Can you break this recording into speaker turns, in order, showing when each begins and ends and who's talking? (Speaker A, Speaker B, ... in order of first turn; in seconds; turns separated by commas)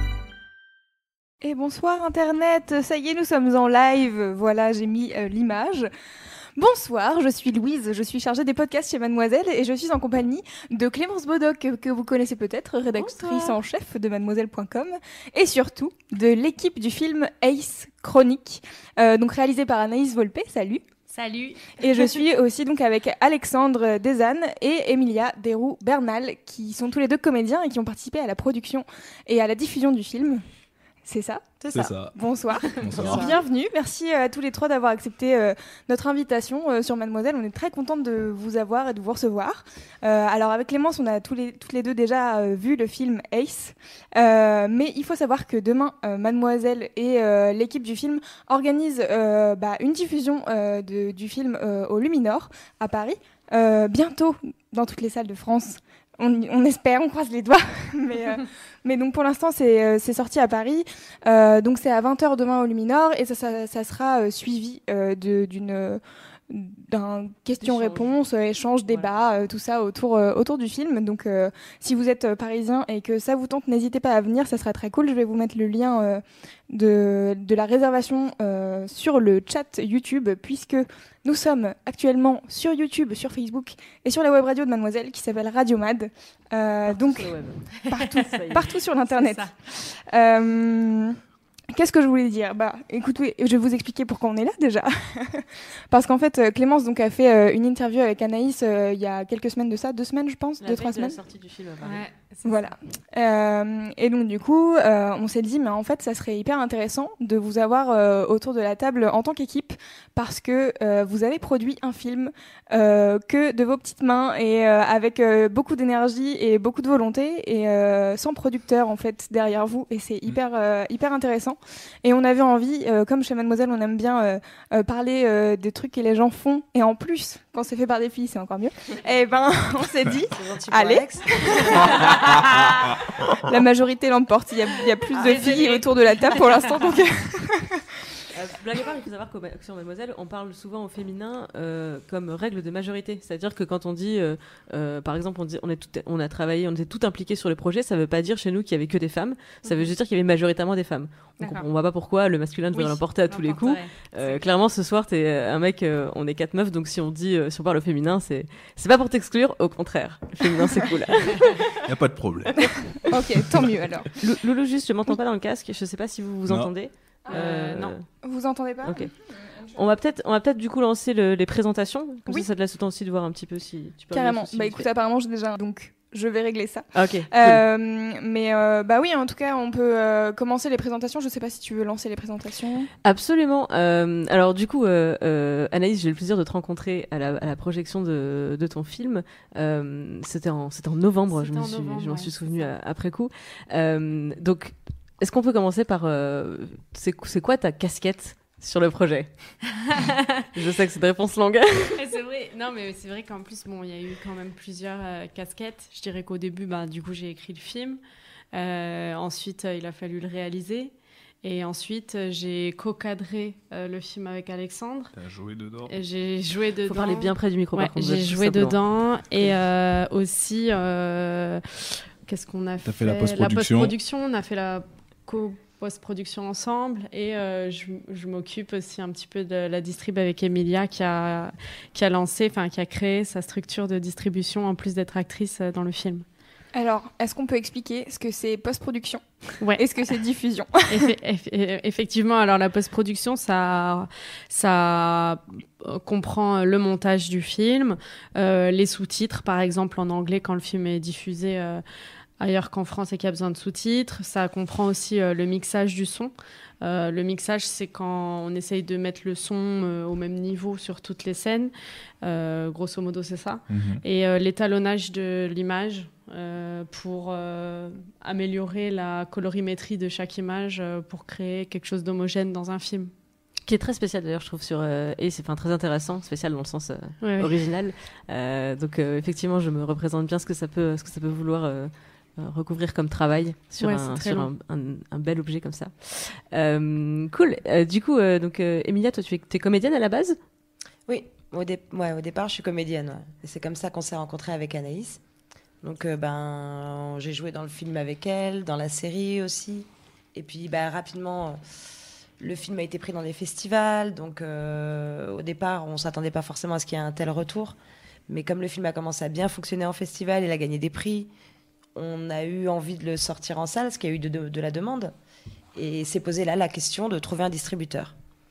Speaker A: 1.4-5.9, Speaker A: 6.6-20.8, Speaker B: 13.1-13.5, Speaker B: 21.1-22.1, Speaker A: 21.8-30.4, Speaker A: 31.0-31.4, Speaker C: 31.6-31.9, Speaker D: 31.7-32.1, Speaker A: 32.1-87.3, Speaker D: 32.7-33.3, Speaker C: 32.9-33.3, Speaker E: 67.6-68.1, Speaker E: 68.9-69.1, Speaker E: 86.9-88.7, Speaker A: 87.9-91.2, Speaker B: 89.2-89.5, Speaker A: 91.7-101.2, Speaker E: 100.6-102.0, Speaker B: 101.8-102.7, Speaker A: 102.4-131.6, Speaker C: 130.3-131.9, Speaker A: 133.4-137.8, Speaker B: 135.2-135.8, Speaker E: 138.3-161.7, Speaker B: 149.6-149.9, Speaker B: 151.4-151.6, Speaker B: 152.7-154.4, Speaker D: 161.8-163.0, Speaker A: 163.1-164.1, Speaker E: 164.2-168.0, Speaker A: 167.3-169.1, Speaker B: 167.3-167.9, Speaker E: 168.8-169.1, Speaker E: 169.7-174.9, Speaker A: 174.1-182.9, Speaker E: 176.9-177.6, Speaker E: 183.0-199.6, Speaker B: 191.3-192.7, Speaker E: 200.5-202.0, Speaker B: 202.0-208.0, Speaker B: 208.5-210.9, Speaker B: 211.4-215.1, Speaker D: 215.1-215.9, Speaker B: 215.9-221.6, Speaker E: 216.9-218.8, Speaker B: 222.3-236.2, Speaker D: 222.8-223.9, Speaker A: 236.7-241.1, Speaker B: 240.9-251.8, Speaker B: 252.4-273.1, Speaker D: 263.7-264.0, Speaker E: 273.6-290.4, Speaker B: 277.2-277.5, Speaker B: 283.8-284.5, Speaker C: 291.1-295.2, Speaker C: 295.8-301.6, Speaker C: 302.4-307.8, Speaker C: 308.3-311.3, Speaker C: 311.9-315.1, Speaker C: 315.7-318.1